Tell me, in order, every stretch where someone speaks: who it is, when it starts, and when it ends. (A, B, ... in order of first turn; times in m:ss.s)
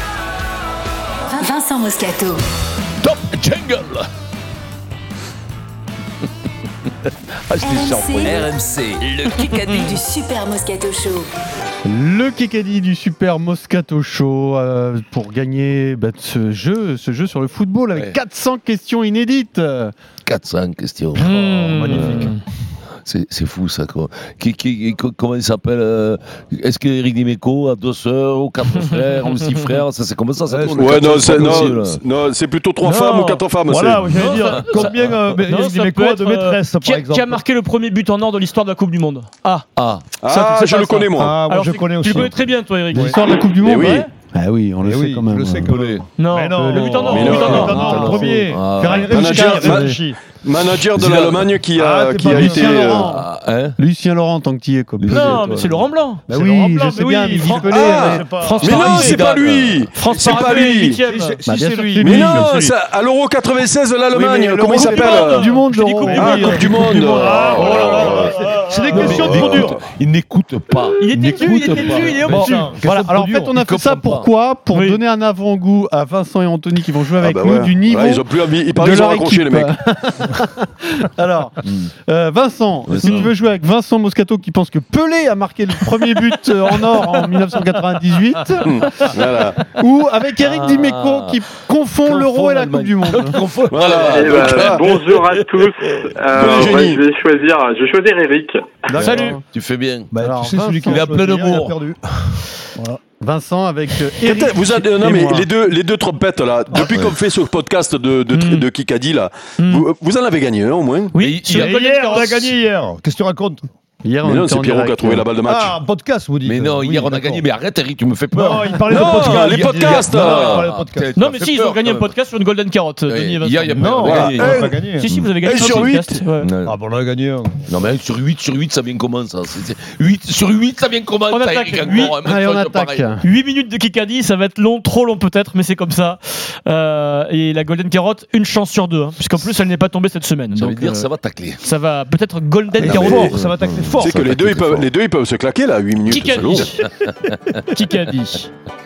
0:01.3-0:02.4 A
0:03.0-0:04.1 B
0:07.5-0:08.5 B
0:07.6-0:11.3 A
0:09.6-0:10.0 C
0:11.8-0:19.9 D
0:20.2-0:22.4 B
0:21.2-0:22.4 C
0:21.2-0:22.4 E
0:23.0-0:32.0 B
0:28.8-0:29.6 C
0:30.5-0:31.7 E
0:30.7-0:34.2 F
0:32.8-0:33.4 C
0:33.7-0:37.4 E
0:34.1-0:39.7 C
0:34.5-0:35.2 B
0:39.8-0:40.0 B
0:40.2-0:41.4 F
0:40.3-0:44.1 C
0:41.2-0:42.3 E
0:42.9-0:43.2 E
0:42.9-0:45.7 D
0:43.6-0:44.1 F
0:44.8-0:50.2 E
0:45.7-0:46.1 B
0:46.2-0:48.2 C
0:46.6-0:50.0 D
0:47.1-0:47.9 F
0:47.7-0:49.3 B
0:49.1-0:53.1 F
0:50.9-0:51.6 B
0:51.7-0:53.0 E
0:52.2-0:53.3 D
0:53.0-0:53.8 B
0:53.8-0:55.3 D
0:55.0-0:55.9 B
0:55.1-0:56.3 C
0:56.3-0:58.8 E
0:56.3-0:58.3 D
0:57.3-0:59.2 C
0:57.7-1:01.0 F
0:58.6-0:59.9 B
1:00.0-1:01.4 C
1:00.9-1:02.8 E
1:01.5-1:02.5 D
1:02.0-1:05.5 F
1:04.1-1:05.4 E
1:04.6-1:07.5 D
1:04.7-1:06.7 C
1:06.1-1:08.4 F
1:06.2-1:09.8 E
1:07.3-1:09.8 C
1:08.9-1:09.7 F
1:09.0-1:12.5 B
1:11.0-1:13.3 C
1:11.2-1:13.5 E
1:12.8-1:33.4 D
1:13.5-1:14.3 B
1:14.7-1:15.0 C
1:17.2-1:19.7 F
1:21.6-1:21.9 B
1:22.9-1:23.4 B
1:23.0-1:23.3 C
1:28.6-1:29.7 F
1:30.4-1:31.4 B
1:32.0-1:36.2 B
1:33.7-1:35.0 F
1:34.0-1:38.5 G
1:36.3-1:37.0 F
1:38.9-1:39.4 E
1:39.0-1:39.4 D
1:39.0-1:40.1 B
1:39.0-1:39.4 C
1:40.1-1:42.0 E
1:40.2-1:41.2 D
1:40.9-1:41.8 B
1:42.8-1:43.0 E
1:43.1-1:45.5 D
1:44.2-1:51.1 F
1:46.8-1:47.2 B
1:48.3-1:48.7 C
1:49.6-1:49.9 C
1:51.1-1:52.5 C
1:51.2-1:51.8 B
1:51.5-1:53.6 E
1:54.0-1:55.3 D
1:54.2-1:55.8 F
1:55.4-1:57.4 E
1:56.4-2:02.1 B
1:58.3-2:01.1 E
1:58.9-2:00.7 F
2:01.2-2:04.3 C
2:03.1-2:05.3 B
2:03.8-2:05.1 E
2:04.1-2:04.8 F
2:05.0-2:06.5 C
2:05.4-2:06.2 F
2:06.4-2:06.8 B
2:06.6-2:07.7 E
2:07.7-2:13.2 B
2:11.3-2:12.2 C
2:12.2-2:13.2 D
2:13.2-2:23.4 C
2:20.6-2:21.6 B
2:22.8-2:24.1 E
2:22.8-2:24.9 B
2:23.0-2:23.4 F
2:24.0-2:26.7 F
2:26.1-2:26.8 C
2:26.9-2:27.6 B
2:27.7-2:28.5 C